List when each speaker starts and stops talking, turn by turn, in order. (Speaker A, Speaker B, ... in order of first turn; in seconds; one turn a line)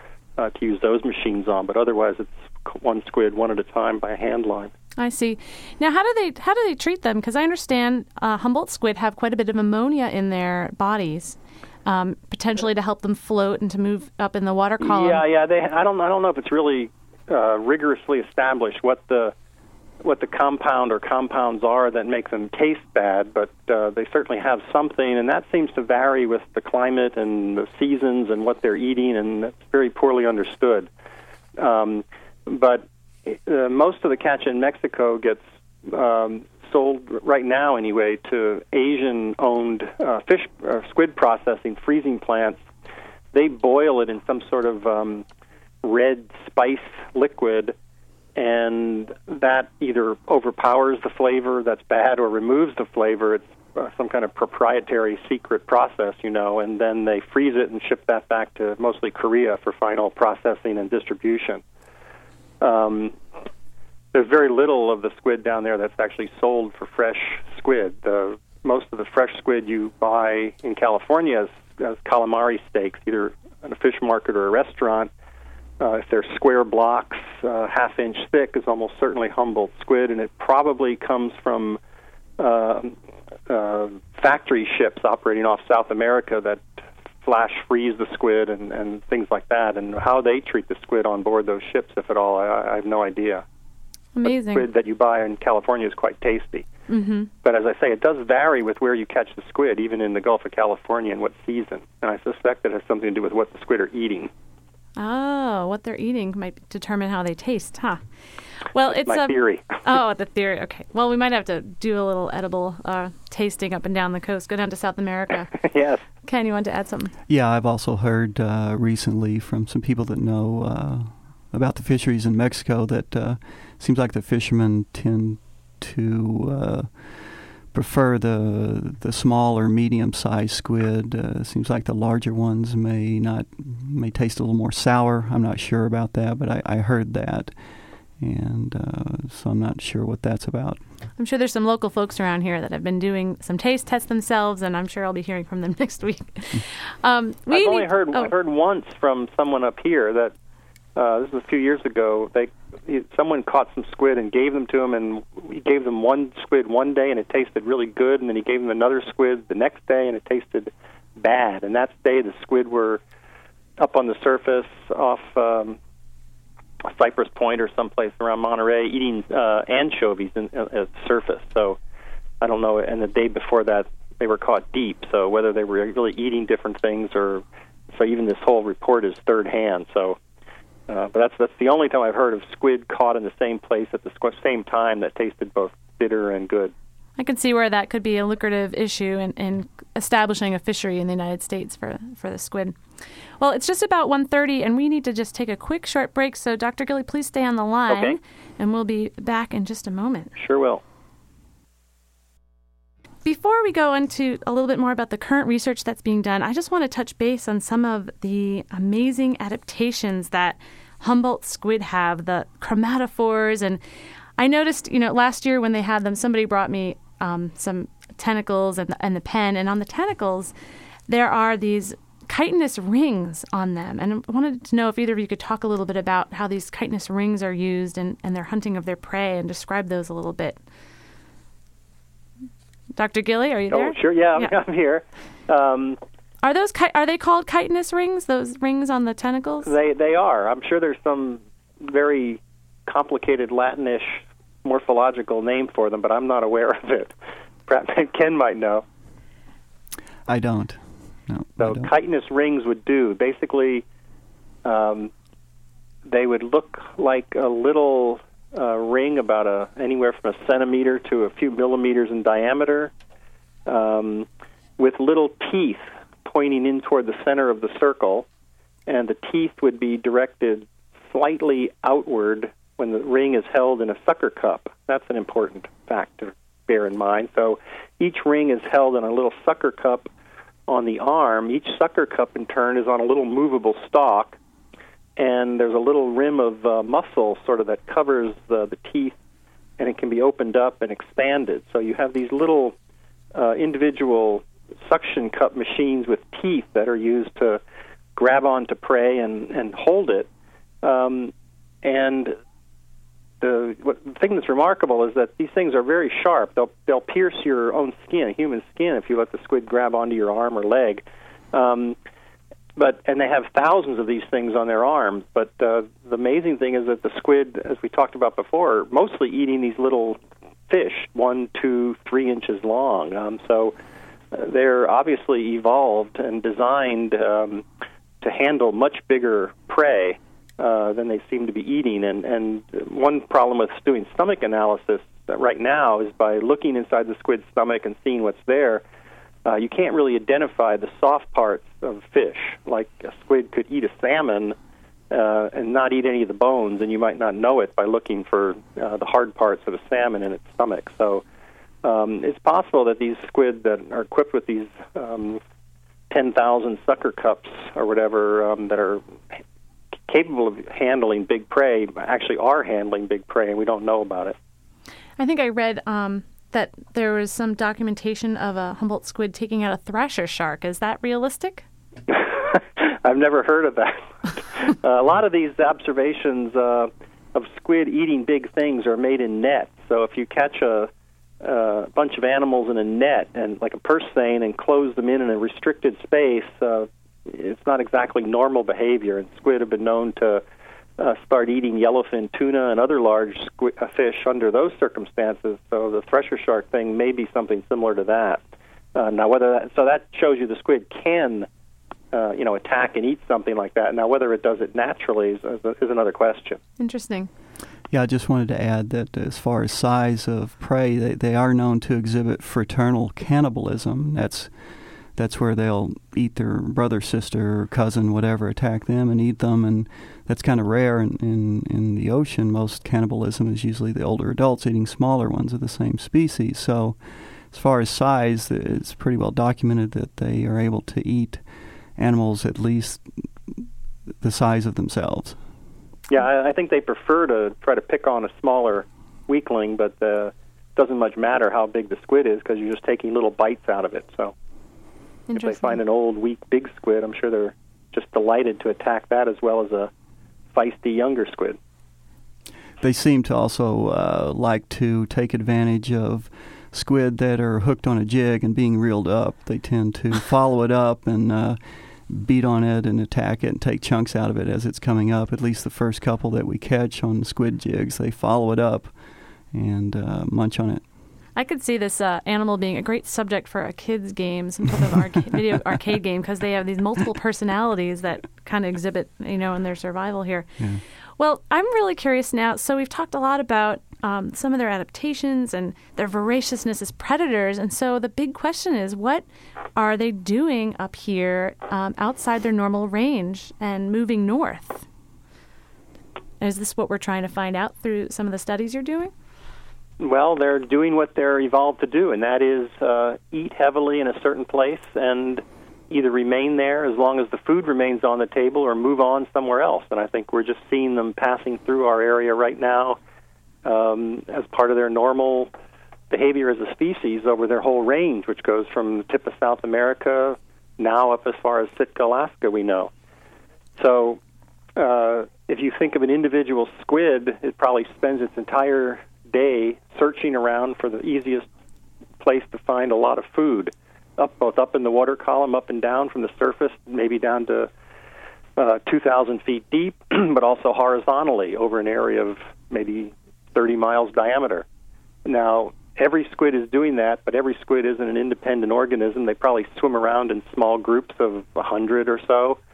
Speaker A: 0.4-4.7
Speaker B: 5.0-15.2
Speaker A: 14.8-19.3
Speaker A: 20.0-30.9
Speaker A: 31.6-42.6
Speaker A: 43.3-45.2
Speaker A: 45.8-47.8
Speaker A: 48.4-61.6
Speaker A: 62.6-63.1
Speaker A: 64.1-75.1
Speaker A: 75.8-81.8
Speaker A: 82.4-83.0
Speaker A: 83.5-86.7
Speaker A: 87.2-93.4
Speaker B: 94.1-94.7
Speaker A: 94.2-96.7
Speaker B: 96.9-97.3
Speaker A: 97.4-104.3
Speaker B: 105.0-108.0
Speaker B: 108.7-115.6
Speaker A: 108.9-109.8
Speaker A: 115.6-116.0
Speaker B: 116.2-117.1
Speaker C: 117.3-137.5
Speaker C: 138.2-140.8
Speaker B: 141.2-148.3
Speaker A: 147.5-150.3
Speaker A: 150.9-163.0
Speaker A: 163.8-165.8
Speaker A: 166.8-171.8
Speaker A: 172.4-177.4
Speaker A: 177.9-180.2
Speaker A: 180.9-186.7
Speaker B: 187.2-192.7
Speaker B: 193.4-200.3
Speaker A: 197.9-198.2
Speaker A: 200.3-200.8
Speaker B: 203.2-213.8
Speaker B: 214.4-220.5
Speaker B: 221.1-230.6
Speaker B: 232.9-234.5
Speaker A: 233.7-236.0
Speaker B: 236.4-239.7
Speaker A: 239.6-247.1
Speaker A: 247.7-248.8
Speaker C: 250.3-251.9
Speaker A: 251.6-253.8
Speaker A: 254.6-255.1
Speaker A: 256.1-262.9
Speaker A: 263.6-264.3
Speaker A: 264.8-268.2
Speaker A: 268.9-280.1
Speaker A: 280.7-284.4
Speaker A: 285.2-289.1
Speaker A: 289.8-292.7
Speaker A: 293.3-297.6
Speaker A: 298.1-300.3
Speaker A: 300.8-302.3
Speaker A: 303.4-311.9
Speaker A: 312.8-320.2
Speaker A: 320.7-323.7
Speaker A: 324.3-327.6
Speaker A: 328.2-338.8
Speaker A: 339.4-344.6
Speaker A: 345.1-351.2
Speaker A: 351.8-355.4
Speaker A: 356.1-359.0
Speaker A: 360.1-364.4
Speaker B: 365.2-371.6
Speaker A: 372.1-380.9
Speaker A: 381.4-390.4
Speaker A: 391.0-398.4
Speaker A: 398.9-401.5
Speaker A: 402.1-406.6
Speaker B: 406.8-407.3
Speaker C: 407.9-414.5
Speaker C: 415.1-427.0
Speaker C: 427.5-431.4
Speaker C: 432.0-433.6
Speaker C: 434.2-435.4
Speaker A: 436.1-444.3
Speaker B: 445.3-445.8
Speaker A: 445.3-449.9
Speaker A: 450.5-451.6
Speaker C: 452.8-468.9
Speaker C: 469.5-470.8
Speaker B: 471.3-480.5
Speaker B: 481.2-489.2
Speaker B: 489.8-494.9
Speaker B: 496.4-499.1
Speaker A: 500.0-513.0
Speaker A: 513.6-515.5
Speaker A: 516.1-522.9
Speaker A: 523.8-524.2
Speaker A: 524.8-531.5
Speaker A: 532.2-537.7
Speaker A: 538.6-544.6
Speaker A: 545.2-552.6